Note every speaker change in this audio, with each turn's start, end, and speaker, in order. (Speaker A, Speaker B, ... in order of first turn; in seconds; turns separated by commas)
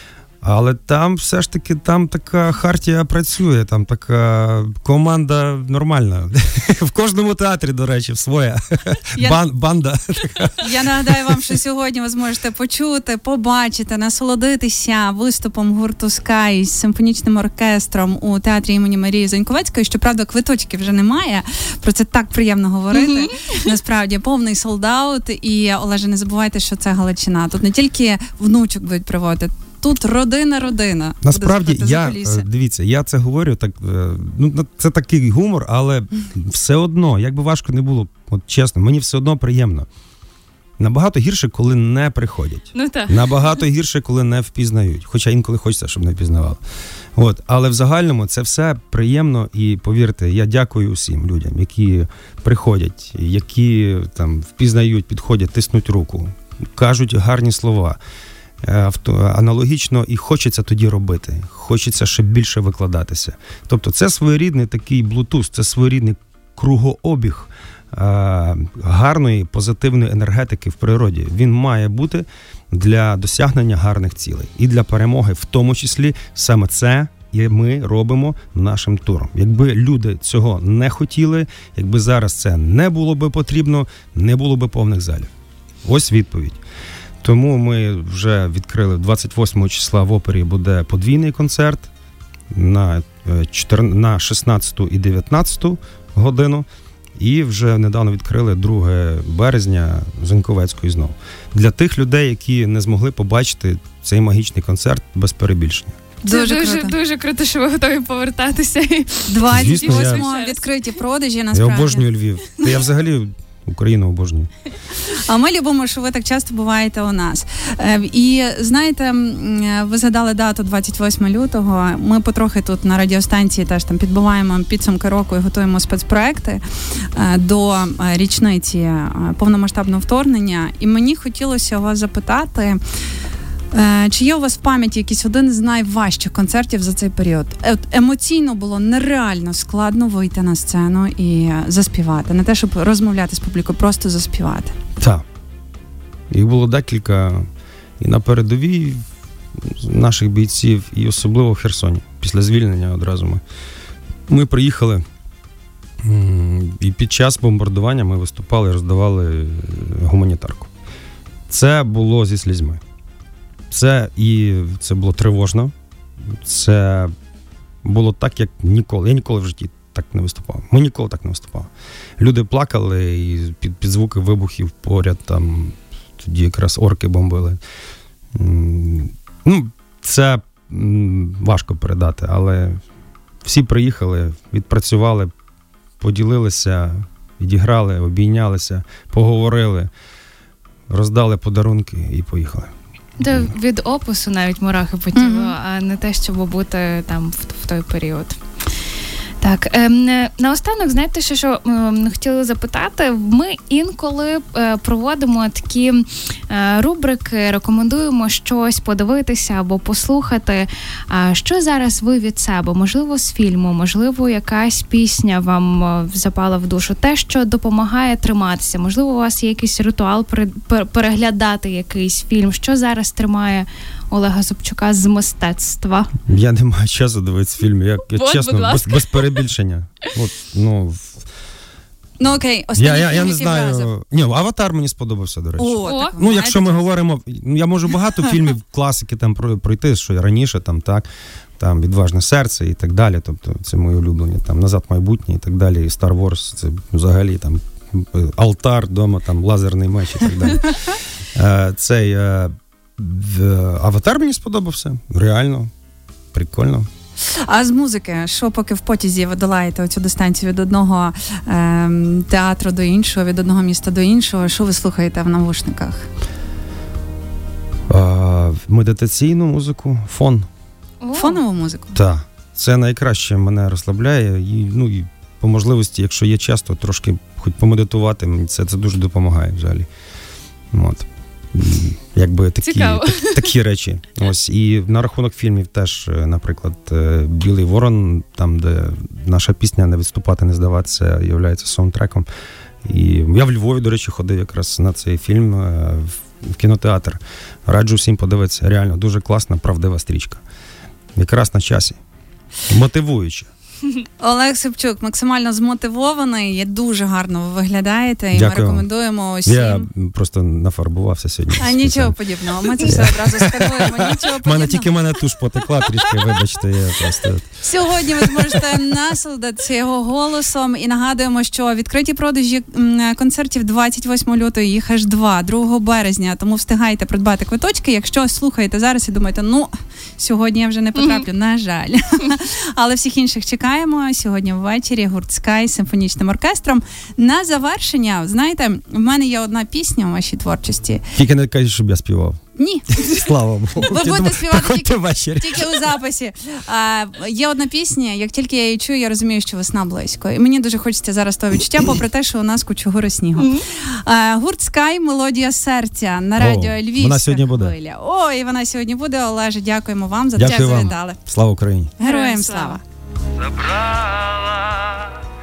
Speaker A: 0.4-11.4, Speaker B: 9.2-9.4, Speaker B: 10.6-32.5, Speaker C: 23.0-23.7, Speaker A: 31.2-39.9, Speaker A: 40.8-46.6, Speaker C: 42.7-43.3, Speaker A: 47.2-58.0, Speaker A: 58.6-85.3, Speaker A: 85.8-86.6, Speaker A: 87.2-91.9, Speaker A: 92.5-96.7, Speaker A: 97.2-106.0, Speaker B: 106.2-107.0, Speaker C: 106.3-110.8, Speaker B: 109.3-112.1, Speaker A: 109.5-110.2, Speaker A: 111.5-114.5, Speaker B: 115.1-132.8, Speaker B: 133.7-144.8, Speaker A: 146.3-147.5, Speaker A: 148.0-149.0, Speaker A: 149.6-153.4, Speaker A: 154.3-155.0, Speaker A: 156.0-160.7, Speaker A: 161.5-162.8, Speaker A: 163.7-165.7, Speaker A: 166.4-167.1, Speaker A: 167.8-177.6, Speaker A: 178.3-182.8, Speaker A: 183.4-185.3, Speaker A: 186.0-189.9, Speaker A: 190.9-192.7, Speaker C: 193.2-198.4, Speaker B: 195.2-195.6, Speaker C: 199.4-226.1, Speaker A: 226.3-231.2, Speaker C: 228.1-229.4, Speaker B: 232.2-233.9, Speaker A: 232.8-241.1, Speaker B: 235.6-236.9, Speaker C: 235.8-236.2, Speaker A: 241.6-255.7, Speaker A: 256.3-256.9, Speaker B: 257.4-266.1, Speaker A: 267.9-270.5, Speaker C: 271.0-271.4, Speaker B: 271.1-272.0, Speaker A: 271.9-279.9, Speaker A: 280.7-292.3, Speaker C: 282.6-283.5, Speaker A: 292.9-300.4, Speaker A: 301.2-302.0, Speaker A: 302.7-303.5, Speaker B: 304.2-309.9, Speaker A: 308.3-308.9, Speaker A: 309.4-312.2, Speaker B: 311.6-314.9, Speaker A: 312.8-318.6, Speaker B: 317.6-341.1, Speaker C: 331.0-331.2, Speaker A: 341.1-345.9, Speaker B: 342.6-343.1, Speaker B: 343.8-361.2, Speaker C: 353.4-353.6, Speaker A: 356.4-357.8, Speaker A: 360.4-362.0, Speaker C: 360.4-360.9, Speaker B: 362.0-362.8, Speaker C: 362.0-362.8, Speaker A: 363.4-365.1